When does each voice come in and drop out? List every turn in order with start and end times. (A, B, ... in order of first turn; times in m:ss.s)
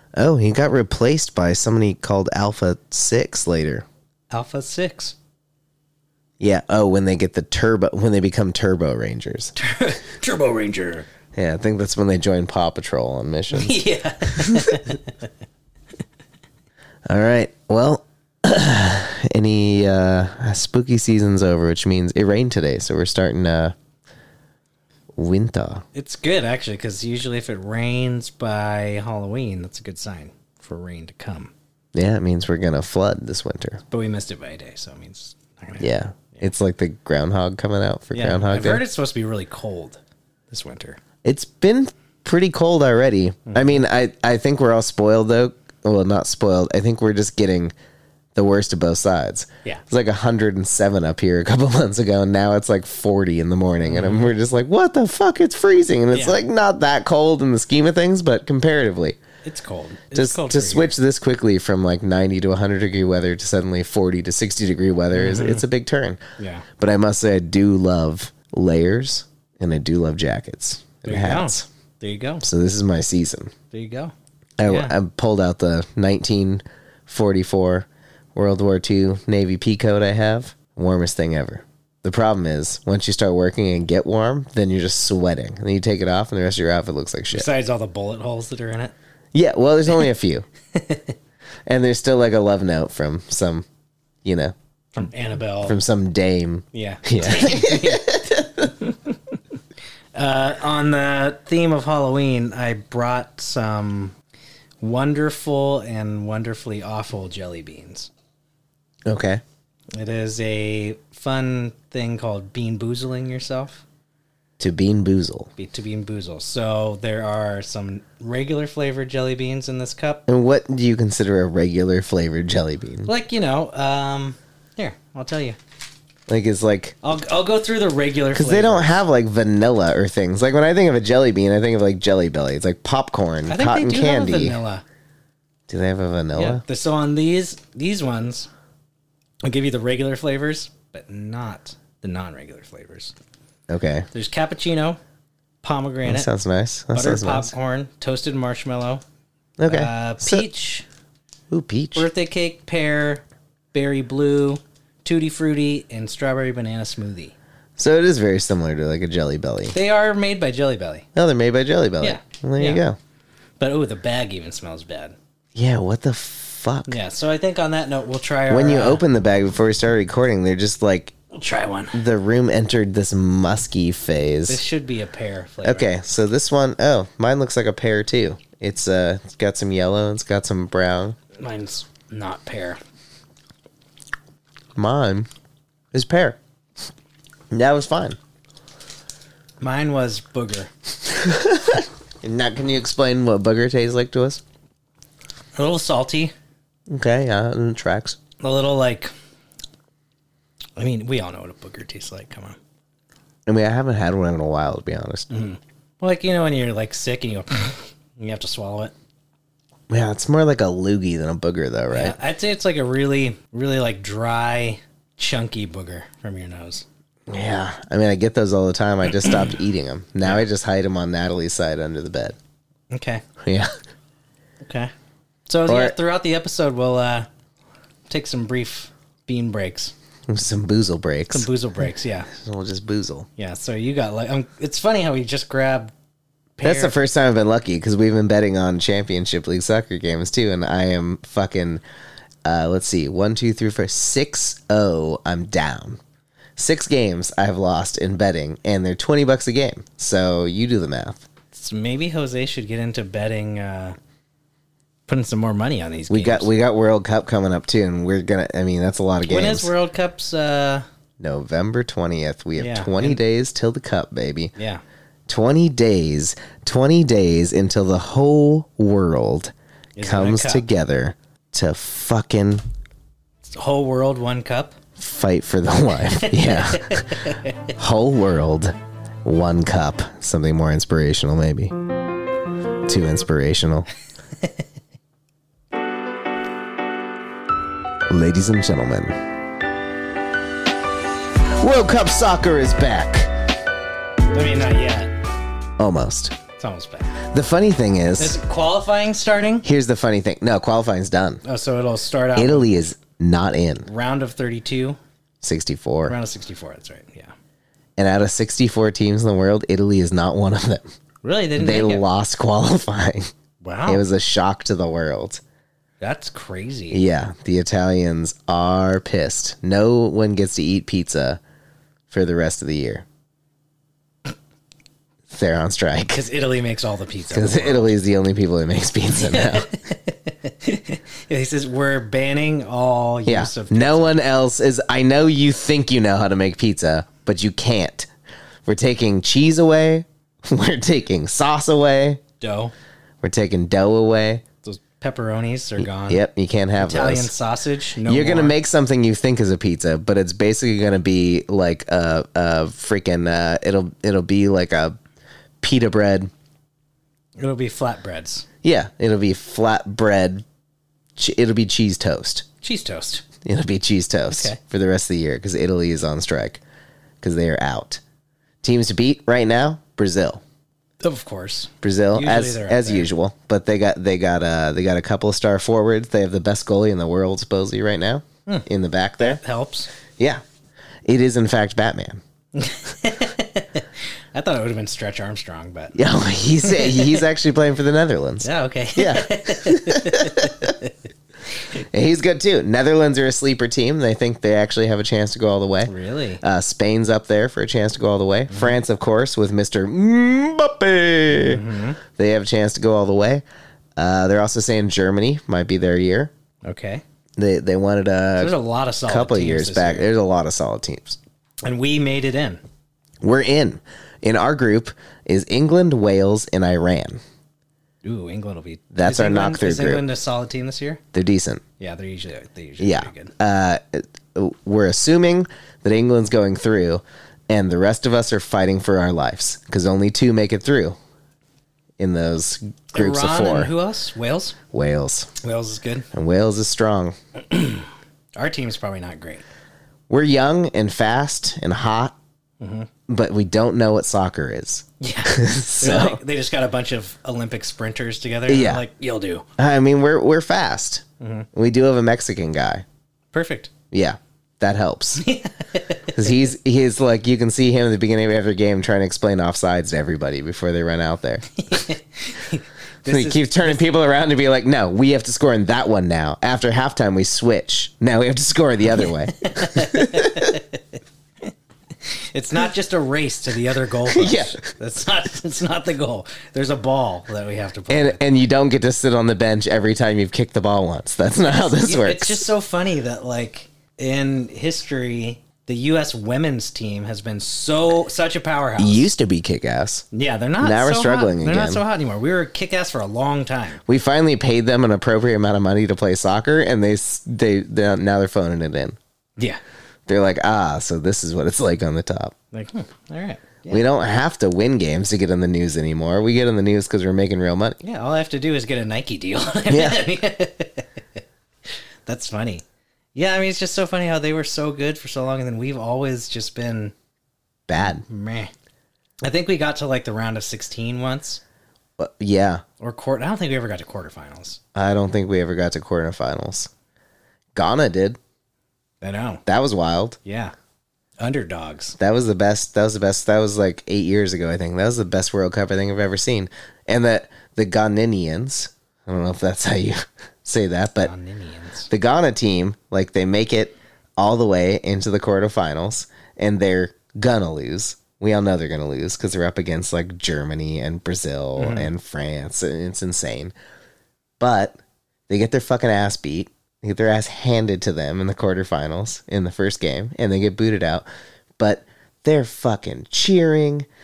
0:00.2-0:03.9 A
0:04.3-0:05.2 B
0:06.4-0:09.5 A
0:09.6-0:11.1 B
0:11.3-0:14.8 A
0:13.5-0:15.0 B
0:17.1-0:23.7 A
0:25.1-0:25.8 A
0:25.9-0:31.5 B
0:31.9-0:33.8 A
0:33.9-0:36.5 B
0:35.8-0:38.8 A
0:38.1-0:41.0 B
0:41.2-0:47.7 A
0:43.5-0:43.8 B
0:48.3-0:59.2 A
0:53.8-0:54.3 B
0:56.1-0:56.4 B
0:59.4-1:00.9 B
1:00.1-1:06.2 A
1:05.1-1:05.6 B
1:06.4-1:06.6 B
1:06.8-1:11.6 A
1:11.0-1:12.4 B
1:12.4-1:13.5 A
1:13.7-1:14.1 B
1:14.6-1:27.5 A
1:14.6-1:15.0 B
1:27.3-1:28.9 B
1:29.3-1:30.4 A
1:30.7-1:31.1 B
1:31.7-1:33.6 A
1:34.2-1:34.5 A
1:34.9-1:35.8 B
1:35.6-1:38.7 A
1:36.7-1:39.1 B
1:40.1-1:44.1 B
1:44.8-1:48.1 B
1:49.0-1:49.4 A
1:49.9-1:53.8 B
1:54.6-1:55.5 A
1:55.6-2:00.2 B
2:00.3-2:03.1 A
2:03.0-2:05.6 B
2:06.3-2:07.0 A
2:07.0-2:09.0 B
2:08.3-2:14.6 A
2:13.5-2:14.8 B
2:15.7-2:16.6 A
2:16.3-2:18.5 B
2:19.4-2:23.1 B
2:23.7-2:24.1 A
2:24.1-2:25.0 B
2:25.6-2:26.3 B
2:26.0-2:27.5 A
2:26.9-2:29.0 B
2:29.6-2:30.4 A
2:29.7-2:30.8 B
2:31.5-2:32.1 A
2:31.9-2:37.3 B
2:37.8-2:39.8 A
2:39.7-2:41.1 B
2:41.1-2:43.0 A
2:42.0-2:42.8 B
2:43.6-2:45.2 B
2:45.5-2:47.0 A
2:46.9-2:49.0 B
2:48.5-2:51.2 A
2:51.3-2:52.0 B
2:51.9-2:54.6 A
2:54.5-2:55.9 B
2:55.6-3:01.2 A
3:01.4-3:02.8 B
3:04.8-3:05.3 A
3:05.9-3:06.4 A
3:07.5-3:08.2 A
3:09.6-3:10.7 B
3:11.1-3:14.4 A
3:15.6-3:16.3 B
3:16.9-3:18.2 A
3:18.4-3:19.1 B
3:20.8-3:22.6 B
3:23.4-3:25.4 A
3:25.3-3:28.9 B
3:29.9-3:32.2 A
3:31.9-3:36.8 B
3:37.3-3:42.4 A
3:42.9-3:43.2 B
3:43.4-3:43.7 A
3:44.6-3:44.9 B
3:45.5-3:47.3 B
3:45.6-3:46.0 A
3:48.1-3:49.9 B
3:50.3-3:51.5 A
3:51.3-3:52.3 B
3:52.3-3:53.3 A
3:53.4-3:55.9 B
3:56.6-3:56.9 B
3:56.6-4:01.8 A
4:02.4-4:06.0 A
4:06.6-4:11.2 A
4:11.5-4:14.0 B
4:15.1-4:16.5 B
4:16.1-4:19.7 A
4:19.2-4:20.8 B
4:21.2-4:24.5 A
4:22.6-4:23.2 B
4:24.6-4:24.8 B
4:25.3-4:32.6 A
4:30.0-4:30.6 B
4:33.4-4:34.8 B
4:35.0-4:41.7 A
4:36.1-4:37.7 B
4:42.8-4:43.9 A
4:48.1-4:49.2 A
4:51.5-4:53.3 A
4:54.3-4:55.1 B
4:55.8-4:56.4 A
4:56.6-4:57.2 B
4:57.3-4:58.4 A
4:58.2-4:59.6 B
4:59.6-5:01.4 A
5:01.4-5:02.8 B
5:02.3-5:03.9 A
5:03.8-5:05.0 B
5:05.4-5:06.2 A
5:06.0-5:07.3 B
5:08.0-5:10.8 A
5:11.2-5:12.0 B
5:11.6-5:13.3 A
5:13.6-5:14.0 B
5:13.8-5:15.4 A
5:16.0-5:17.0 B
5:16.9-5:21.4 A
5:22.1-5:23.0 A
5:25.3-5:26.2 A
5:26.1-5:27.9 B
5:27.3-5:29.7 A
5:29.2-5:34.2 B
5:33.2-5:38.1 A
5:38.6-5:42.2 A
5:42.4-5:42.7 B
5:43.2-5:44.4 A
5:44.6-5:46.2 B
5:45.8-5:47.3 A
5:46.8-5:48.5 B
5:48.0-5:55.0 A
5:55.6-5:56.3 A
5:57.4-5:58.4 B
5:58.6-6:00.4 A
6:01.2-6:02.4 A
6:02.6-6:03.2 B
6:03.4-6:06.6 A
6:04.3-6:04.6 B
6:07.2-6:08.0 A
6:08.6-6:10.4 A
6:11.0-6:13.1 B
6:11.8-6:19.4 A
6:19.2-6:19.9 B
6:21.0-6:22.2 A
6:22.5-6:26.0 B
6:25.9-6:30.7 A
6:26.6-6:27.3 B
6:28.4-6:30.9 B
6:31.8-6:43.4 A
6:35.8-6:36.4 B
6:38.5-6:38.8 B
6:41.3-6:42.0 B
6:44.0-6:46.3 A
6:46.6-6:47.0 B
6:47.4-6:51.2 A
6:48.4-6:50.1 B
6:51.6-6:52.6 B
6:53.2-6:57.2 A
6:58.0-7:01.0 B
6:58.9-7:00.0 A
7:01.1-7:01.6 A
7:01.8-7:03.3 B
7:02.8-7:11.0 A
7:12.0-7:13.7 A
7:12.9-7:14.6 B
7:14.7-7:15.3 A
7:15.4-7:16.1 B
7:16.1-7:17.2 A
7:17.5-7:19.4 B
7:20.1-7:22.1 A
7:22.6-7:22.9 B
7:23.1-7:26.2 A
7:25.0-7:29.5 B
7:28.5-7:28.8 A
7:29.6-7:32.8 A
7:31.2-7:31.5 B
7:33.3-7:33.7 B
7:33.9-7:35.2 A
7:35.2-7:36.3 B
7:36.1-7:41.6 A
7:41.6-7:43.9 B
7:43.1-7:50.6 A
7:49.0-7:50.6 B
7:52.3-7:58.2 B
7:54.1-7:54.6 A
7:57.9-8:02.4 A
8:01.6-8:09.1 B
8:08.8-8:10.0 A
8:10.1-8:13.8 B
8:10.6-8:11.8 A
8:13.9-8:19.0 A
8:20.1-8:22.3 A
8:22.5-8:23.8 B
8:23.7-8:27.8 A
8:27.8-8:30.9 B
8:29.7-8:30.0 A
8:32.0-8:32.6 B
8:33.1-8:36.9 B
8:37.7-8:38.0 A
8:37.8-8:38.5 B
8:39.2-8:41.4 B
8:42.0-8:42.6 A
8:42.8-8:44.6 B
8:44.7-8:46.7 A
8:47.5-8:48.2 A
8:49.0-8:49.4 B
8:49.4-8:50.2 A
8:50.2-8:50.5 B
8:51.2-8:52.0 B
8:52.0-9:01.1 A
9:01.0-9:01.9 B
9:01.9-9:13.5 A
9:11.6-9:11.9 B
9:14.4-9:21.0 A
9:21.6-9:23.9 A